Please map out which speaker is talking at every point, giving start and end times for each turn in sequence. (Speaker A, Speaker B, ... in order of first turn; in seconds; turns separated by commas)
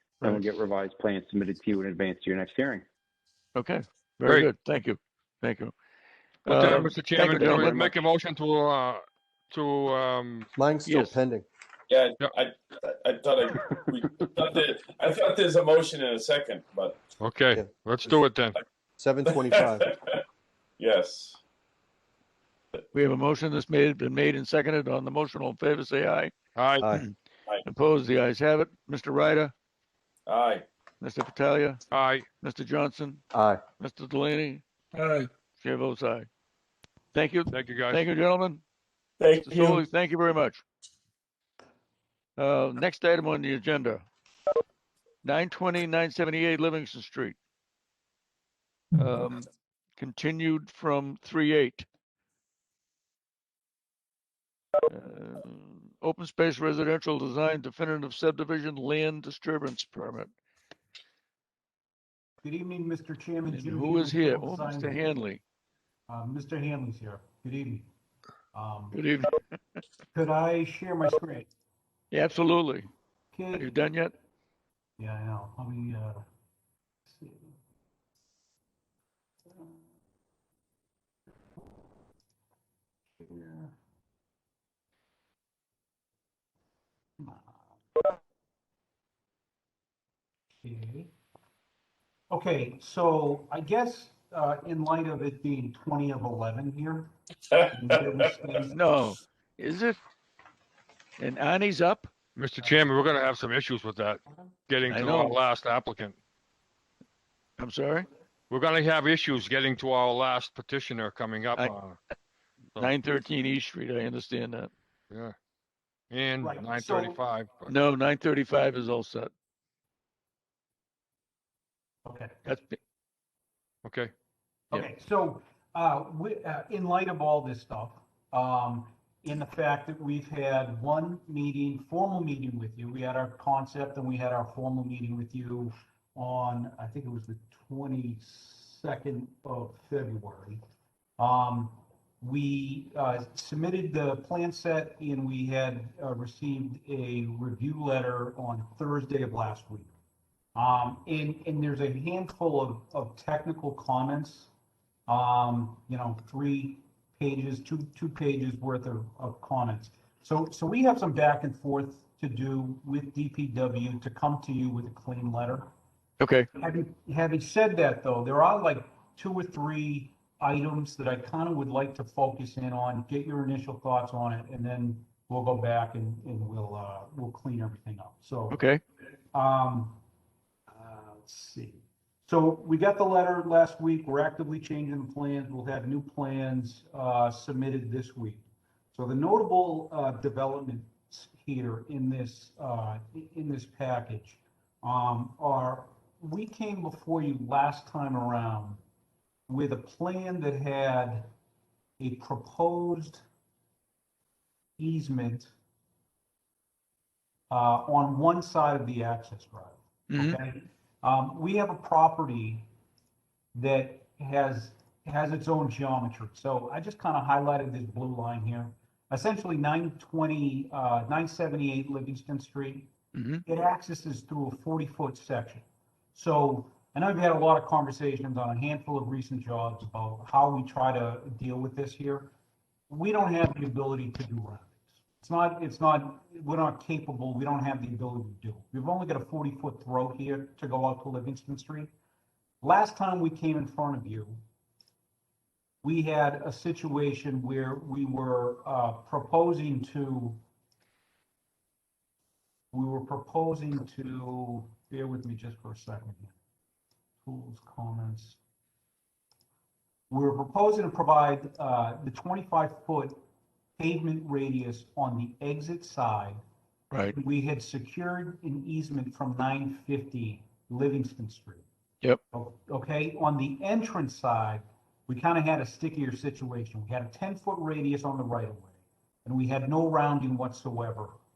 Speaker A: 0.2-2.9, Speaker B: 3.5-5.7, Speaker B: 6.5-7.9, Speaker C: 6.5-10.5, Speaker A: 7.3-7.9, Speaker D: 10.6-11.5, Speaker B: 10.8-11.2, Speaker E: 11.9-17.0, Speaker C: 17.2-18.6, Speaker D: 17.5-18.2, Speaker D: 19.0-19.9, Speaker E: 19.3-20.2, Speaker E: 20.8-21.4, Speaker B: 22.9-26.3, Speaker C: 26.6-26.9, Speaker B: 26.9-29.5, Speaker E: 30.3-30.7, Speaker B: 31.0-31.8, Speaker C: 31.9-32.3, Speaker B: 32.4-33.2, Speaker D: 33.3-33.6, Speaker B: 33.8-35.0, Speaker B: 35.5-36.3, Speaker B: 37.1-38.6, Speaker C: 37.5-38.0, Speaker E: 39.2-39.9, Speaker B: 39.4-40.6, Speaker B: 42.4-44.0, Speaker B: 45.2-47.4, Speaker B: 49.0-51.9, Speaker B: 54.9-60.3, Speaker F: 62.4-65.2, Speaker B: 63.5-65.4, Speaker F: 66.1-67.9, Speaker F: 68.5-69.0, Speaker B: 68.9-69.4, Speaker F: 70.1-71.5, Speaker B: 72.1-72.9, Speaker F: 73.3-73.7, Speaker B: 73.5-74.1, Speaker F: 75.0-76.2, Speaker F: 77.1-77.5, Speaker F: 83.2-83.7, Speaker F: 87.2-87.6, Speaker F: 90.6-91.1, Speaker F: 92.3-97.1, Speaker F: 97.7-98.8, Speaker B: 98.7-100.0, Speaker B: 101.2-102.1, Speaker C: 102.4-106.2, Speaker B: 104.9-105.4, Speaker B: 107.6-108.1, Speaker C: 108.5-112.0, Speaker B: 112.8-114.7, Speaker C: 116.1-117.7, Speaker F: 116.4-117.2, Speaker B: 117.7-119.3, Speaker F: 122.0-122.4, Speaker B: 122.5-122.8, Speaker C: 123.8-124.1, Speaker F: 124.7-140.6, Speaker F: 141.2-149.9, Speaker F: 150.6-154.5, Speaker F: 155.1-165.7, Speaker B: 166.2-166.5, Speaker F: 166.6-178.6, Speaker B: 178.5-178.8, Speaker F: 179.3-180.0, Speaker F: 180.7-198.8, Speaker F: 199.5-201.3, Speaker F: 202.0-203.2, Speaker F: 204.8-205.5, Speaker F: 207.5-212.7, Speaker B: 210.1-210.4, Speaker F: 213.5-222.9, Speaker B: 223.2-223.4, Speaker F: 223.4-232.3, Speaker F: 232.9-241.9, Speaker F: 242.6-244.4, Speaker F: 245.8-250.4, Speaker F: 252.7-256.4, Speaker F: 257.2-258.4, Speaker F: 260.1-263.2, Speaker F: 263.8-266.4, Speaker F: 267.1-271.6, Speaker F: 272.3-281.1